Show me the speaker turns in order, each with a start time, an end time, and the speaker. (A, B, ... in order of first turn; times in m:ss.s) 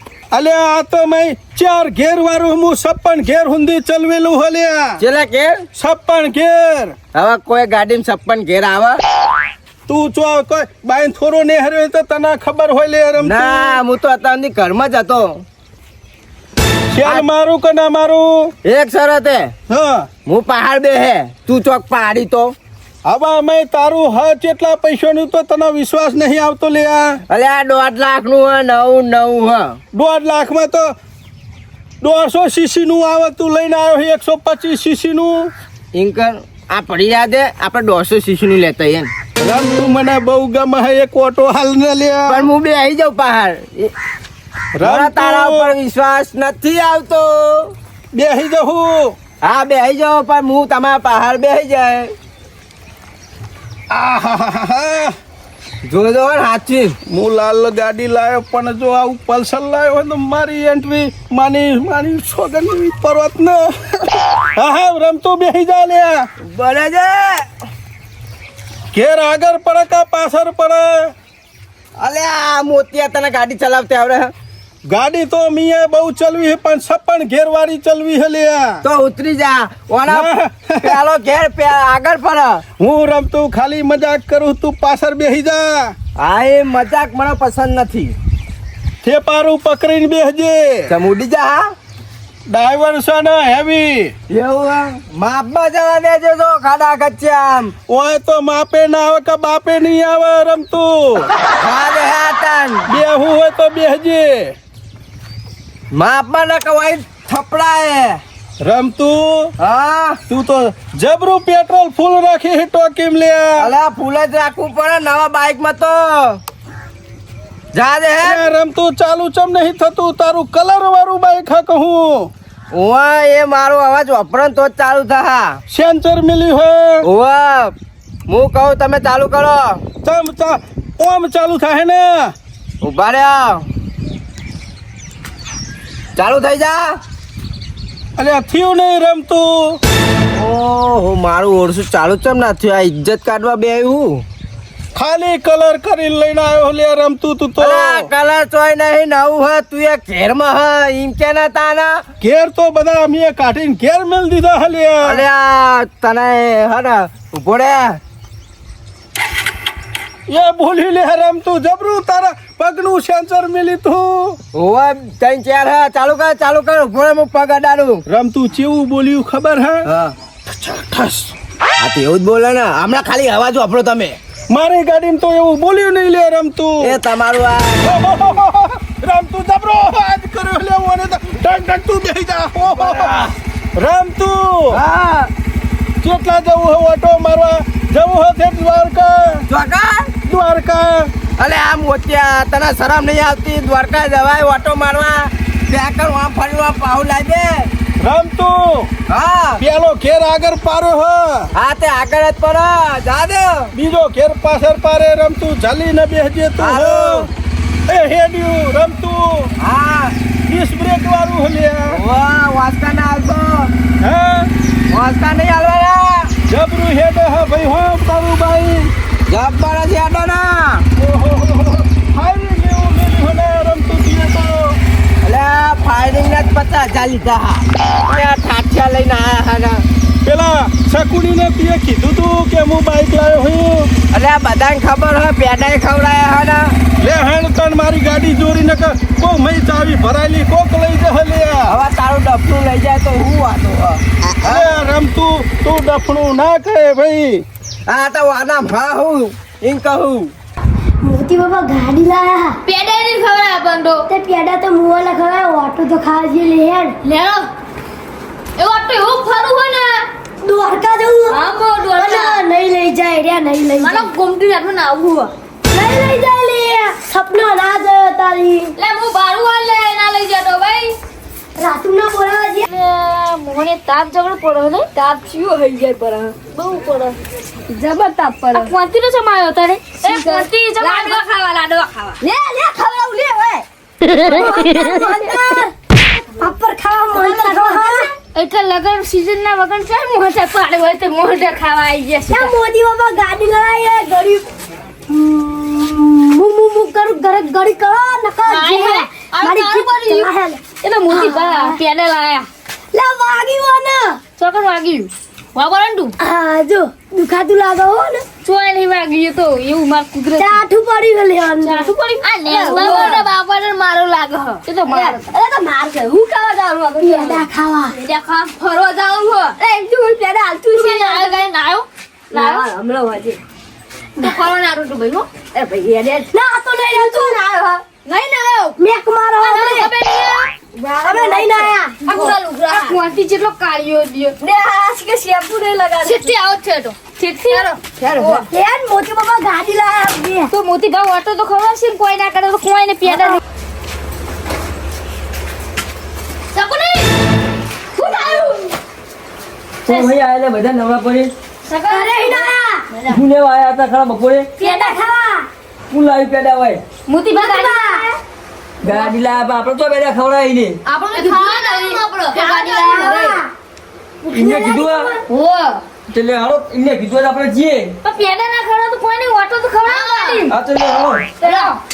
0:00.3-0:05.0 A
0:05.0-0:05.6 B
0:05.7-0:06.9 A
0:07.2-0:09.0 B
0:09.9-0:13.8 A
0:13.2-0:15.4 B
0:16.9-0:18.5 A
0:18.6-0:19.5 B
0:19.7-0:20.1 A
0:20.2-0:22.5 B
0:23.0-0:27.2 A
0:27.3-0:29.8 B
0:29.9-0:30.9 A
0:32.0-0:35.5 A
0:36.0-0:39.1 B
0:39.4-0:42.5 A
0:42.3-0:43.9 B
0:44.8-0:45.7 A
0:44.8-0:47.7 B
0:48.1-0:49.1 A
0:49.4-0:52.1 B
0:53.9-0:55.1 A
0:55.9-0:57.0 B
0:57.0-1:06.3 A
1:06.5-1:07.5 B
1:08.9-1:11.1 A
1:12.0-1:14.3 B
1:14.9-1:18.8 A
1:18.8-1:22.6 B
1:20.1-1:21.0 A
1:22.8-1:25.9 A
1:26.2-1:28.1 B
1:29.0-1:30.9 A
1:30.9-1:31.7 B
1:32.5-1:34.1 A
1:34.3-1:37.7 B
1:37.9-1:41.3 A
1:41.4-1:42.9 B
1:42.9-1:44.5 A
1:45.9-1:48.2 B
1:48.6-1:49.5 A
1:49.6-1:50.2 B
1:50.3-1:53.7 A
1:53.6-1:56.4 B
1:57.7-1:58.4 B
1:58.2-2:02.3 A
2:02.7-2:05.6 B
2:05.7-2:07.0 A
2:07.0-2:07.7 B
2:08.3-2:09.8 B
2:10.0-2:12.3 A
2:12.8-2:13.6 B
2:16.2-2:17.0 B
2:18.2-2:19.8 A
2:20.3-2:24.2 B
2:24.9-2:28.1 A
2:27.6-2:32.0 B
2:32.2-2:35.2 A
2:35.0-2:38.0 B
2:40.3-2:44.4 A
2:44.5-2:48.0 B
2:48.0-2:49.9 A
2:49.8-2:50.1 B
2:50.4-2:51.3 A
2:51.8-2:54.2 B
2:54.5-2:57.0 A
2:56.8-2:58.0 B
2:57.8-3:04.8 A
3:02.8-3:03.3 B
3:04.7-3:05.3 B
3:06.0-3:09.4 A
3:09.5-3:10.1 B
3:10.2-3:11.1 A
3:11.4-3:17.7 B
3:18.0-3:18.9 A
3:19.1-3:19.6 B
3:19.6-3:21.5 A
3:21.5-3:23.7 B
3:23.7-3:27.3 A
3:26.6-3:27.3 B
3:27.9-3:29.5 A
3:29.6-3:30.1 B
3:30.5-3:32.0 A
3:31.9-3:33.7 B
3:34.0-3:34.5 A
3:34.9-3:36.3 B
3:36.5-3:38.9 A
3:39.3-3:40.8 B
3:41.0-3:44.8 A
3:45.2-3:49.8 B
3:50.2-3:53.9 A
3:54.1-3:56.8 B
3:57.0-4:01.7 A
4:01.7-4:04.8 B
4:04.4-4:07.4 A
4:07.9-4:10.3 B
4:11.0-4:12.6 C
4:12.6-4:14.1 D
4:14.1-4:17.0 C
4:17.0-4:17.5 D
4:18.6-4:20.1 D
4:20.4-4:24.1 C
4:21.3-4:22.4 D
4:23.8-4:25.3 D
4:25.7-4:28.8 C
4:28.8-4:31.0 D
4:31.6-4:32.6 C
4:32.7-4:37.2 D
4:37.7-4:38.7 C
4:38.5-4:42.2 D
4:39.2-4:39.7 E
4:40.1-4:41.2 C
4:42.2-4:43.6 C
4:44.1-4:45.2 D
4:44.2-4:45.7 C
4:46.4-4:48.1 C
4:47.2-4:52.6 D
4:52.3-4:54.4 C
4:55.1-5:01.8 C
4:58.4-5:00.3 D
5:00.8-5:02.5 D
5:02.9-5:04.2 C
5:04.4-5:06.1 D
5:06.2-5:08.2 C
5:08.4-5:10.6 D
5:10.4-5:11.9 C
5:11.6-5:23.4 D
5:12.5-5:13.2 C
5:12.5-5:13.2 E
5:14.8-5:15.2 E
5:17.0-5:17.9 C
5:24.2-5:26.3 D
5:26.3-5:27.4 C
5:26.9-5:28.8 D
5:28.8-5:29.9 C
5:29.4-5:38.5 D
5:31.0-5:32.4 C
5:32.2-5:33.0 E
5:36.0-5:36.3 E
5:37.5-5:40.5 C
5:40.5-5:43.4 D
5:43.1-5:43.4 C
5:46.5-5:47.1 D
5:48.0-5:48.6 C
5:48.1-5:48.3 D
5:49.9-5:51.3 E
5:51.7-5:53.2 D
5:51.9-5:52.9 C
5:53.1-5:54.5 E
5:54.6-5:55.0 D
5:54.6-5:55.5 C
5:55.9-5:56.8 E
5:57.1-5:58.2 D
5:57.3-5:58.1 C
5:58.8-6:00.8 E
5:58.8-5:59.1 D
6:00.9-6:03.4 D
6:01.1-6:03.5 C
6:04.2-6:05.2 C
6:04.3-6:05.2 E
6:05.3-6:05.8 D
6:06.1-6:07.9 E
6:08.0-6:10.6 D
6:09.9-6:10.9 E
6:11.3-6:11.8 D